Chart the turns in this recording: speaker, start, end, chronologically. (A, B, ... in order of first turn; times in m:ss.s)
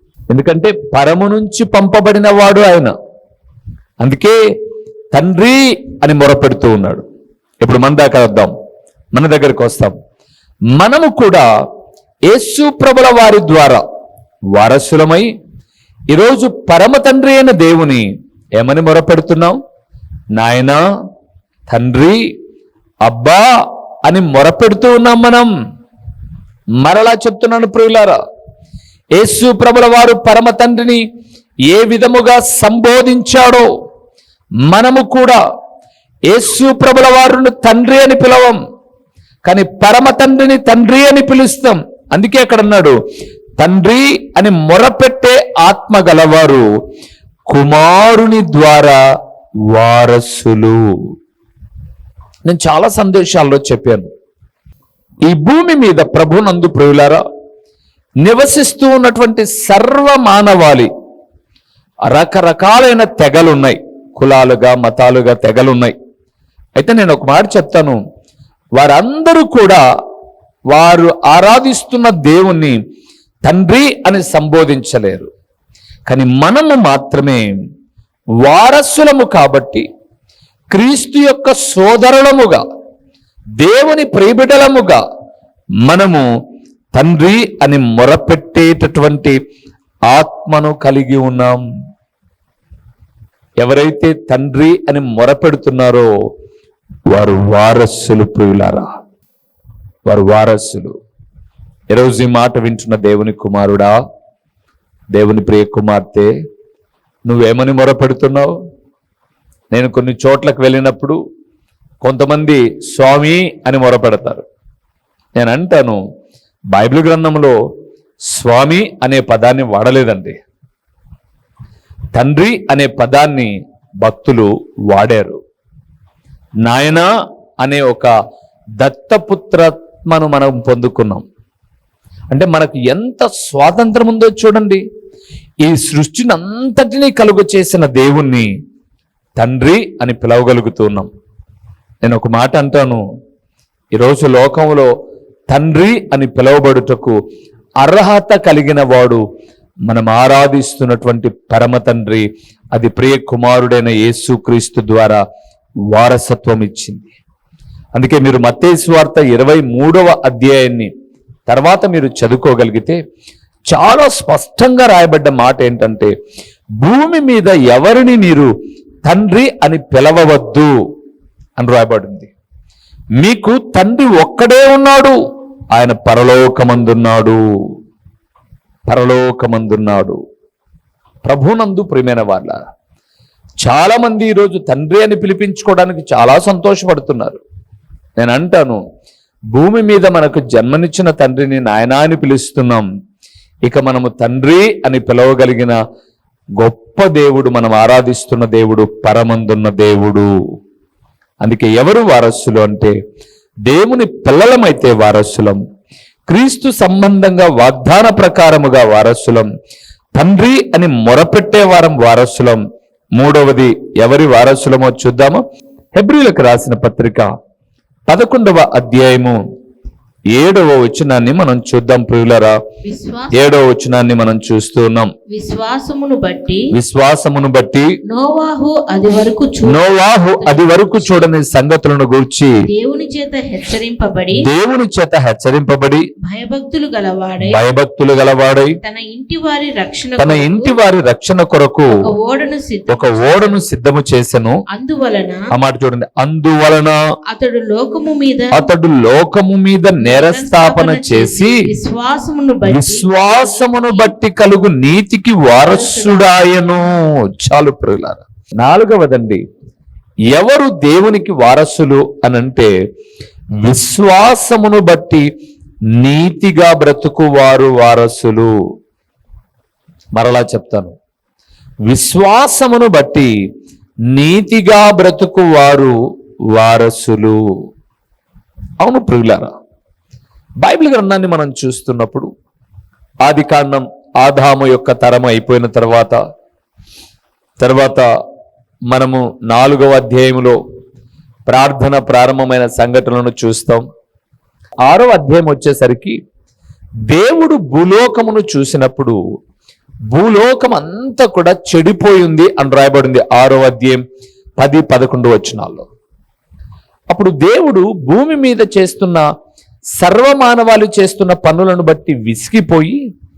0:00.3-0:02.9 A
0:04.0-0:04.4 A
0:05.1-0:07.0 A
0:07.6-0:08.5 A
0:09.1-0:10.0 A
0:10.8-0:11.4 A
0:12.3-0:13.8 A
0:14.5-0:15.3 A
0:16.1-0:18.0 A
0:18.6-0:19.6 A
0:20.4-0:20.8 A
0:21.7-0:22.2 A
0:23.0-0:23.5 A
0:24.0-0:25.5 A
0:26.8-0:28.2 A
0:29.2-0:31.0 A
0:31.7-0:33.6 A
0:34.7-0:35.4 A
0:36.3-0:38.6 A
0:39.4-0:42.9 A
0:43.6-0:46.6 A
0:47.5-0:49.0 A
0:49.7-0:50.8 A
0:52.4-0:54.1 A
0:55.3-0:57.2 A
0:58.2-1:00.9 A
1:02.1-1:06.0 A
1:06.8-1:08.0 A
1:08.8-1:09.8 A
1:10.7-1:12.8 A
1:13.4-1:15.3 A
1:16.1-1:17.4 A
1:18.4-1:19.8 A
1:20.7-1:22.6 A
1:23.6-1:25.0 A
1:25.8-1:26.2 A
1:26.9-1:29.4 A
1:30.1-1:31.6 A
1:33.6-1:36.1 A
1:37.1-1:39.0 A
1:40.1-1:40.9 A
1:41.9-1:44.0 A
1:45.1-1:46.3 A
1:47.3-1:48.5 A
1:49.7-1:51.2 A
1:52.0-1:54.4 A
1:55.4-1:56.0 A
1:56.7-1:57.5 A
1:58.3-2:00.4 A
2:02.1-2:03.5 A
2:04.0-2:05.4 A
2:06.6-2:07.1 A
2:07.6-2:08.1 A
2:08.8-2:11.2 A
2:12.3-2:14.8 A
2:15.6-2:18.5 A
2:19.4-2:21.1 A
2:22.0-2:23.0 A
2:23.9-2:24.9 A
2:25.5-2:27.1 A
2:27.8-2:29.2 A
2:29.9-2:35.2 A
2:35.9-2:37.1 A
2:37.9-2:40.9 A
2:41.5-2:43.0 A
2:43.7-2:46.1 A
2:46.8-2:48.5 A
2:49.0-2:50.7 A
2:51.6-2:52.3 A
2:53.2-2:55.2 A
2:55.7-2:57.4 A
2:58.9-3:00.2 A
3:01.2-3:02.6 A
3:03.6-3:07.4 A
3:08.2-3:08.8 A
3:09.5-3:12.8 A
3:13.6-3:15.8 A
3:16.6-3:20.3 A
3:21.4-3:22.9 A
3:23.6-3:25.6 A
3:26.3-3:29.5 A
3:30.2-3:32.6 A
3:33.2-3:35.4 A
3:35.9-3:37.3 A
3:38.1-3:39.4 A
3:40.3-3:42.6 A
3:42.8-3:43.5 B
3:43.3-3:45.1 A
3:45.3-3:46.7 B
3:46.7-3:47.8 A
3:48.1-3:51.3 B
3:49.6-3:52.5 A
3:52.7-3:54.4 B
3:54.4-3:56.0 A
3:56.2-3:57.6 B
3:57.4-3:58.7 A
3:58.8-4:00.8 B
4:00.2-4:01.9 A
4:01.9-4:03.6 B
4:02.9-4:04.6 A
4:04.7-4:05.4 B
4:05.5-4:07.0 A
4:07.3-4:08.6 B
4:08.5-4:11.6 A
4:10.0-4:14.1 B
4:12.7-4:19.4 A
4:15.6-4:16.3 B
4:20.3-4:22.7 A
4:23.6-4:25.2 A
4:26.0-4:28.5 A
4:30.2-4:31.0 A
4:31.9-4:33.3 A
4:34.1-4:35.9 A
4:36.5-4:37.4 A
4:38.8-4:39.5 A
4:40.6-4:42.3 A
4:43.2-4:46.2 A
4:47.6-4:48.0 A
4:48.9-4:50.6 A
4:51.5-4:53.8 A
4:54.9-4:56.1 A
4:57.1-4:59.2 A
5:00.1-5:04.0 A
5:04.6-5:05.9 A
5:07.1-5:09.2 A
5:10.0-5:13.0 A